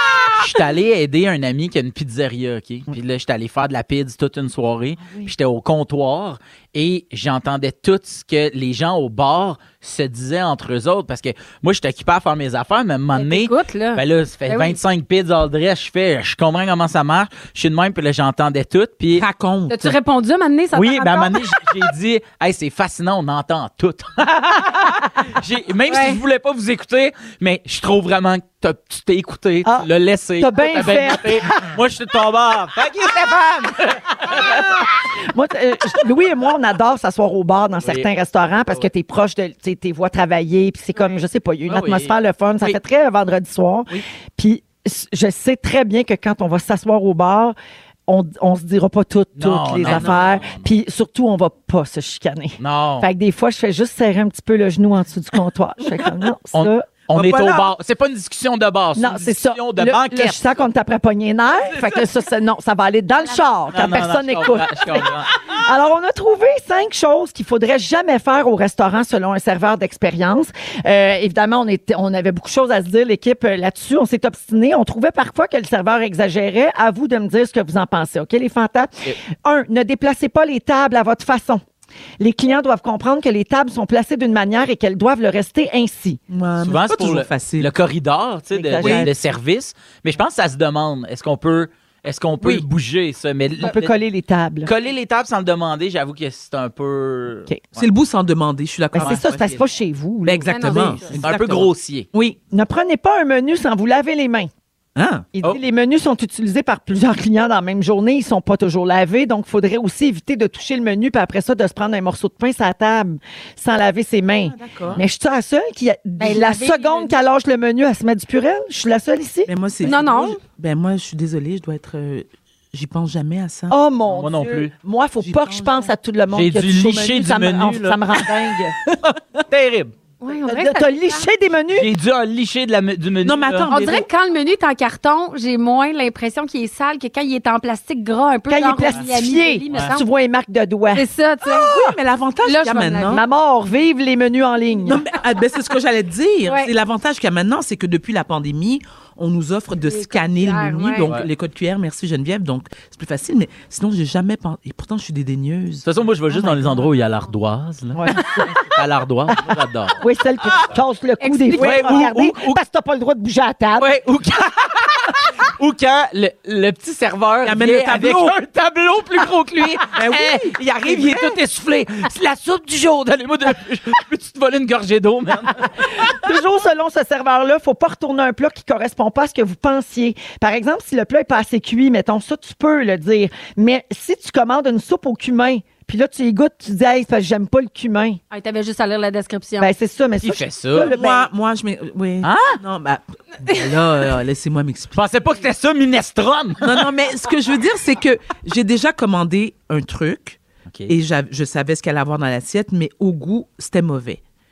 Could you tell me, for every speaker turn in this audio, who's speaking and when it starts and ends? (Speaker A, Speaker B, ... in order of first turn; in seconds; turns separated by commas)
Speaker A: 0.3-19.3, Speaker B: 13.1-14.8, Speaker C: 19.1-19.9, Speaker B: 19.7-21.7, Speaker A: 20.7-34.0, Speaker B: 25.9-26.2, Speaker D: 29.6-31.6, Speaker D: 34.4-34.6, Speaker D: 35.3-47.5, Speaker A: 37.8-38.1, Speaker A: 41.7-42.1, Speaker D: 48.1-57.6, Speaker A: 49.4-50.7, Speaker A: 52.6-53.1, Speaker A: 56.5-60.4, Speaker C: 57.1-57.6, Speaker D: 58.9-81.6, Speaker A: 63.7-65.3, Speaker D: 82.2-86.2, Speaker C: 86.3-87.7, Speaker A: 86.6-94.0, Speaker D: 88.5-89.1, Speaker C: 88.8-89.1, Speaker D: 93.6-94.7, Speaker A: 94.6-97.9, Speaker C: 97.8-99.7, Speaker D: 98.9-100.5, Speaker C: 100.2-102.4, Speaker B: 100.5-101.2, Speaker A: 101.2-102.1, Speaker D: 102.5-104.5, Speaker C: 105.0-105.3, Speaker D: 105.3-119.5, Speaker C: 114.4-115.0, Speaker B: 116.2-117.2, Speaker C: 119.5-123.8, Speaker B: 119.8-120.4, Speaker D: 123.7-128.8, Speaker A: 124.1-124.7, Speaker C: 125.2-125.9, Speaker A: 126.3-128.0, Speaker C: 129.1-129.4, Speaker A: 129.5-129.9, Speaker B: 130.2-131.3, Speaker D: 130.4-131.9, Speaker A: 131.7-133.7, Speaker C: 133.2-134.1, Speaker B: 133.7-140.0, Speaker D: 138.5-141.9, Speaker A: 139.7-139.9, Speaker B: 140.9-141.7, Speaker C: 141.6-143.2, Speaker B: 142.4-143.2, Speaker D: 143.1-145.0, Speaker C: 144.8-155.8, Speaker B: 146.4-146.7, Speaker B: 149.9-151.1, Speaker A: 155.8-158.0, Speaker D: 156.3-156.8, Speaker C: 157.9-158.2, Speaker D: 157.9-158.6, Speaker A: 158.7-160.0, Speaker D: 160.0-163.9, Speaker B: 161.2-161.7, Speaker C: 161.6-162.0, Speaker A: 161.6-162.6, Speaker A: 163.8-175.8, Speaker C: 167.4-168.3, Speaker C: 169.9-171.3, Speaker D: 176.0-188.2, Speaker B: 188.3-189.7, Speaker D: 189.6-191.3, Speaker A: 190.2-190.9, Speaker C: 190.7-195.0, Speaker A: 192.2-192.6, Speaker A: 194.9-196.8, Speaker C: 196.6-204.2